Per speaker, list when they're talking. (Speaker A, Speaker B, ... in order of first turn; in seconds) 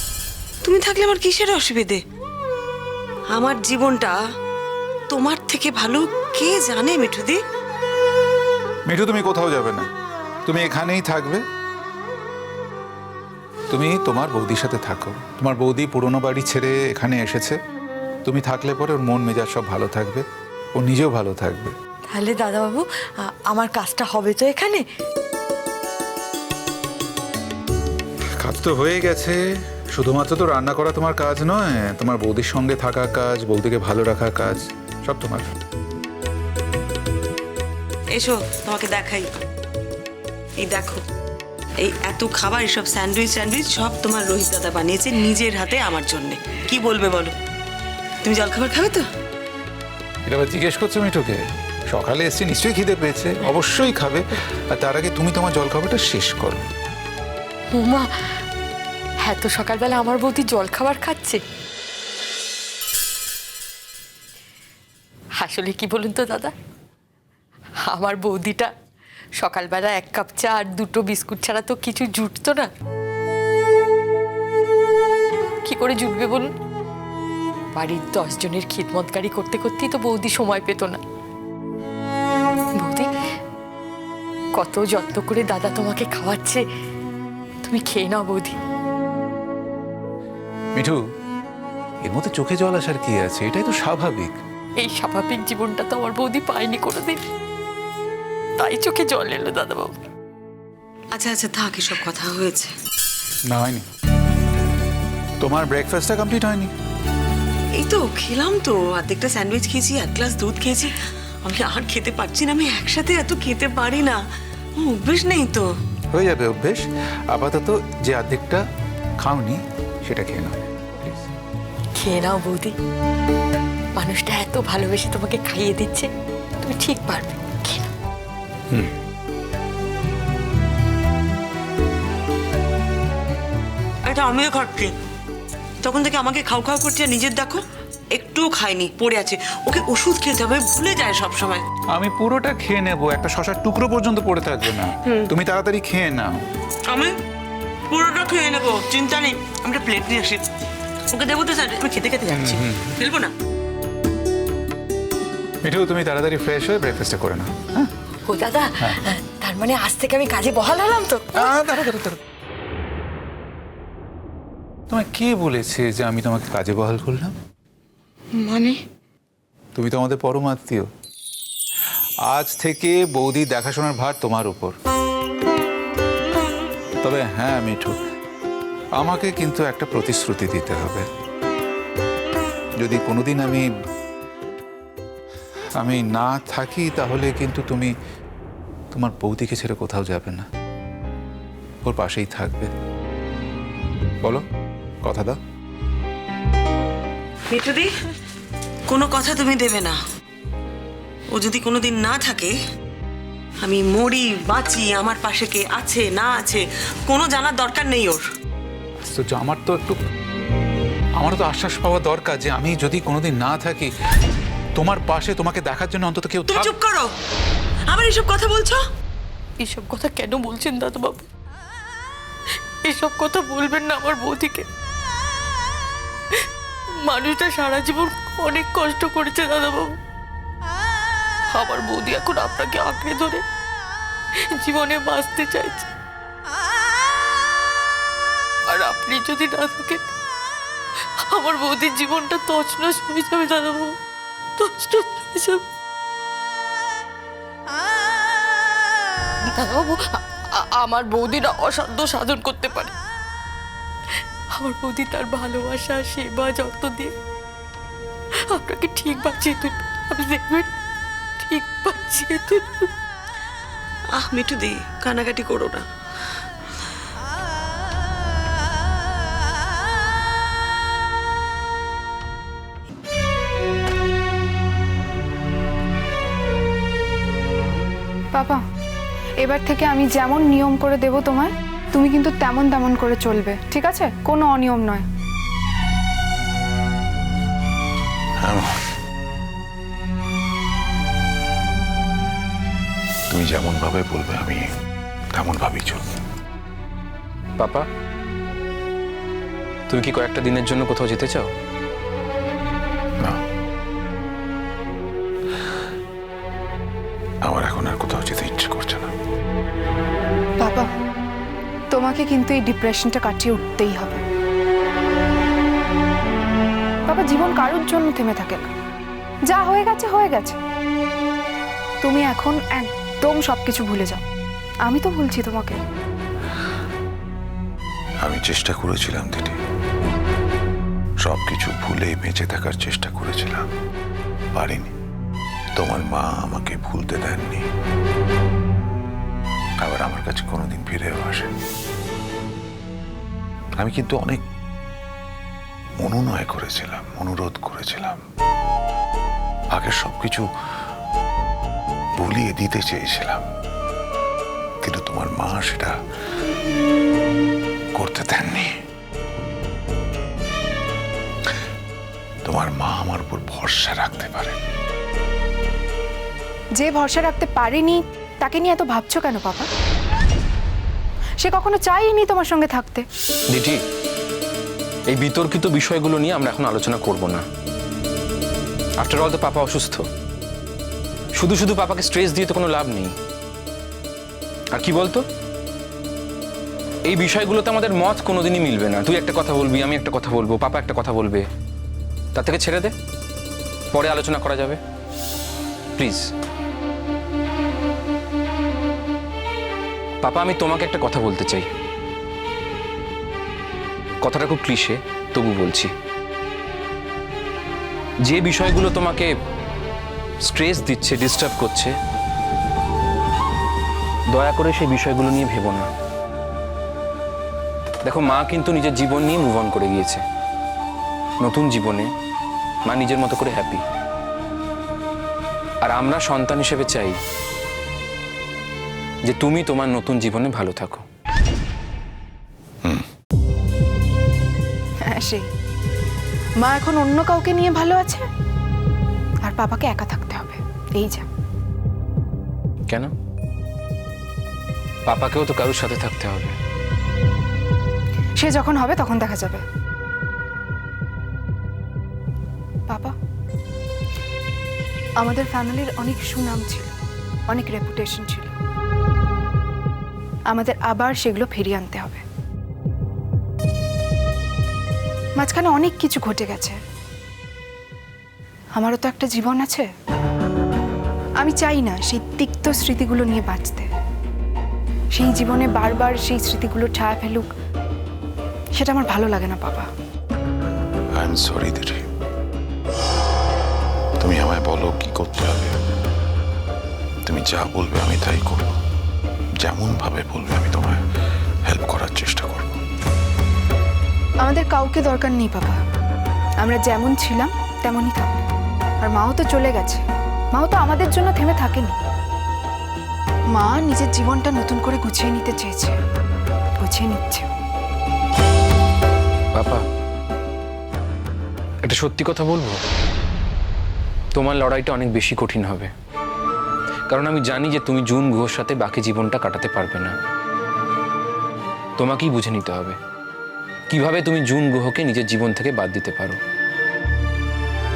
Speaker A: 0.6-2.0, 3.3-4.2, 5.1-7.4, 38.1-39.3, 40.6-41.0, 41.8-47.3, 48.2-49.0, 101.1-102.7, 107.7-110.9, 111.4-114.2, 114.8-115.7, 134.0-134.9, 135.8-137.6, 138.1-141.6, 146.9-147.1, 147.9-150.4, 151.1-153.3, 197.5-197.9, 198.9-200.0, 201.3-202.6, 203.6-208.2, 216.5-217.1, 217.9-218.8, 264.1-265.8
Speaker B: 8.9-9.9, 10.5-11.4, 13.7-17.6, 18.2-20.2, 20.8-21.7, 28.4-29.4, 29.9-35.5, 50.2-56.6, 92.0-94.3, 103.5-103.8, 105.4-106.7, 116.1-118.6, 119.2-121.3, 141.9-146.4, 152.3-152.9, 155.6-157.9, 161.3-162.2, 164.9-167.3, 169.8-170.9, 172.3-174.7, 177.0-178.0, 179.0-181.0, 182.8-183.7, 185.8-187.9, 188.9-190.4, 191.8-192.7, 195.0-195.4, 209.1-210.0, 211.2-213.9, 214.8-216.7
Speaker C: 22.1-24.8, 57.7-58.1, 59.2-61.4, 65.4-66.5, 67.9-68.7, 69.4-72.7, 75.6-76.5, 77.8-81.0, 82.8-83.1, 84.5-86.6, 87.6-88.5, 94.8-97.2, 98.6-99.9, 122.0-122.7, 124.0-126.1, 126.6-127.9, 158.2-161.6, 168.3-168.8, 219.6-221.2, 222.8-224.7, 227.0-229.9, 231.5-233.4, 234.5-235.9, 238.7-240.1, 241.3-243.9, 244.6-245.6, 249.5-252.9, 254.6-257.1, 258.5-260.7, 261.4-262.9
Speaker D: 278.3-278.6, 279.4-285.0, 310.6-310.9, 311.9-314.2, 317.1-318.7, 319.5-320.6, 322.0-324.2, 324.9-325.8, 366.8-369.7, 371.4-373.0, 435.1-435.4, 436.6-438.2, 439.4-441.2, 448.4-449.6, 452.9-453.1, 455.2-456.9, 457.5-458.5, 460.5-462.2, 465.4-466.8, 468.8-469.9, 471.4-473.9, 475.1-477.5, 478.8-479.9, 494.4-495.8, 496.6-498.4, 499.0-501.9, 503.5-505.9, 506.8-507.5
Speaker E: 288.4-288.7, 293.3-294.6, 295.3-296.1, 307.4-309.1, 328.2-329.6, 331.2-333.6, 334.6-334.9, 335.8-337.6, 339.8-341.5, 343.8-344.4, 346.0-348.2, 349.7-350.4, 352.2-353.4, 354.8-355.9, 357.9-358.7, 362.4-364.6, 481.1-482.0, 484.2-485.7, 487.2-488.7, 489.6-491.0, 491.6-492.8
Speaker F: 297.6-297.9, 299.9-301.5, 373.5-373.8, 375.1-377.4, 379.0-380.0, 381.4-383.1, 384.7-385.2, 387.1-391.4, 392.3-392.9, 393.9-394.8, 396.0-396.3, 400.2-401.7, 404.2-405.9, 408.2-409.3, 410.4-411.9, 414.3-415.9, 418.0-420.2, 421.4-422.1, 422.9-423.8, 425.8-427.2, 429.2-431.0, 445.1-446.6, 509.6-509.8, 511.8-512.8, 514.3-515.9, 517.1-520.1, 522.0-523.0, 523.9-526.4